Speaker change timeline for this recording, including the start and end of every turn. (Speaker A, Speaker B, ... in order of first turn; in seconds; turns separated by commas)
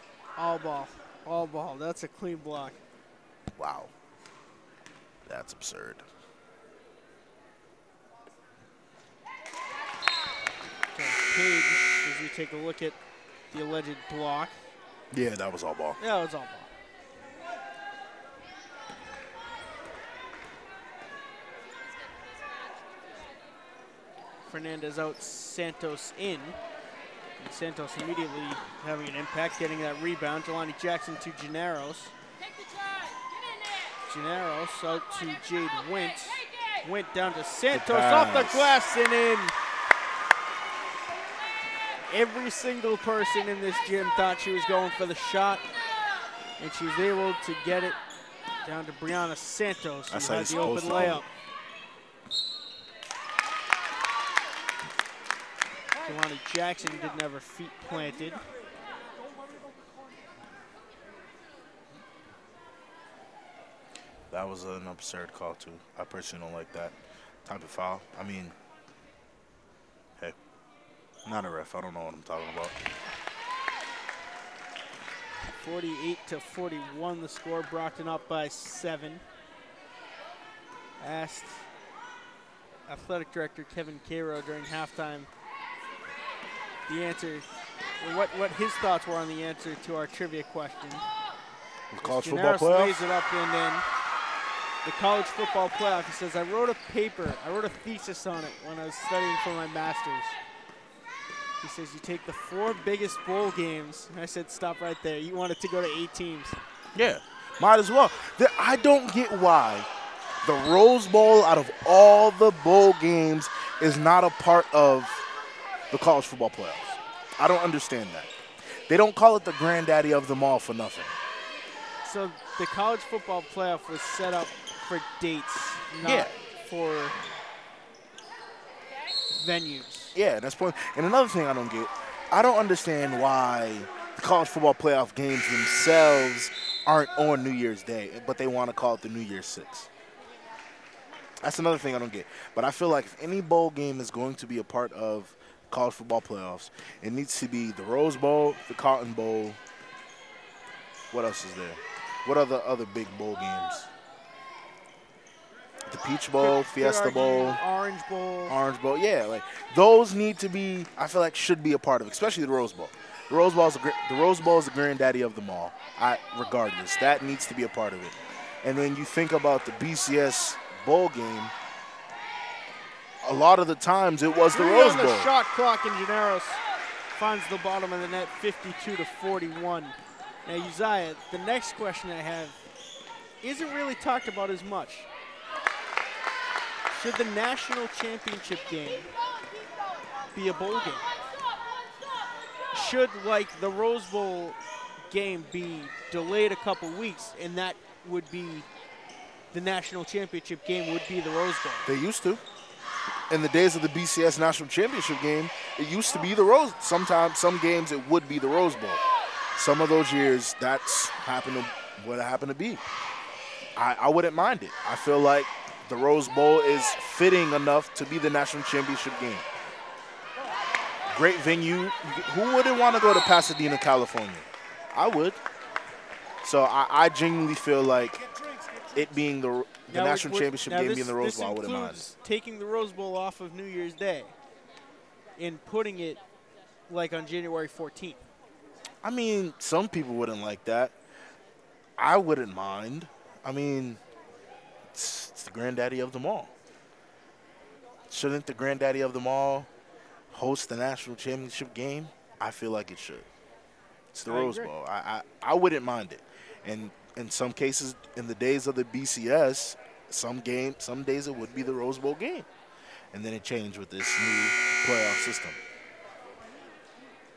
Speaker A: 0.4-2.8, Speaker B: 3.5-3.9, Speaker B: 5.2-6.0, Speaker A: 10.9-13.0, Speaker A: 13.5-14.6, Speaker B: 15.1-16.0, Speaker A: 16.0-16.7, Speaker A: 24.4-26.6, Speaker A: 27.4-32.1, Speaker A: 34.1-39.5, Speaker B: 37.7-38.8, Speaker A: 42.1-45.6, Speaker A: 46.6-48.0, Speaker A: 48.6-51.2, Speaker B: 50.1-51.2, Speaker A: 56.0-58.4, Speaker B: 64.3-68.5, Speaker B: 71.2-72.8, Speaker A: 75.5-79.2, Speaker A: 81.0-81.7, Speaker A: 82.9-85.3, Speaker A: 86.9-87.5, Speaker A: 88.0-91.1, Speaker B: 91.9-93.0, Speaker A: 92.0-93.9, Speaker A: 94.8-100.4, Speaker A: 101.6-106.6, Speaker B: 106.9-109.9, Speaker B: 110.4-115.2, Speaker B: 115.9-121.1, Speaker A: 122.0-127.2, Speaker B: 126.0-126.3, Speaker A: 129.3-130.2, Speaker B: 130.1-139.9, Speaker B: 141.4-149.6, Speaker B: 151.1-153.9, Speaker B: 155.9-157.6, Speaker A: 156.4-158.6, Speaker B: 158.5-171.5, Speaker B: 173.2-175.3, Speaker A: 174.5-176.6, Speaker A: 177.1-182.6, Speaker A: 183.4-185.1, Speaker A: 186.9-189.1, Speaker A: 190.3-191.0, Speaker A: 192.7-198.7, Speaker A: 199.5-201.9, Speaker B: 201.8-202.4, Speaker B: 203.3-209.0, Speaker B: 209.6-212.8, Speaker B: 213.8-219.4, Speaker B: 221.1-225.4, Speaker B: 226.4-228.2, Speaker B: 228.9-232.0, Speaker A: 229.9-234.3, Speaker A: 235.4-236.2, Speaker A: 236.9-238.2, Speaker B: 239.0-240.9, Speaker B: 242.0-244.0, Speaker B: 244.9-246.5, Speaker B: 248.1-249.7, Speaker B: 250.3-253.2, Speaker B: 254.1-262.5, Speaker A: 254.3-254.7, Speaker B: 263.1-265.6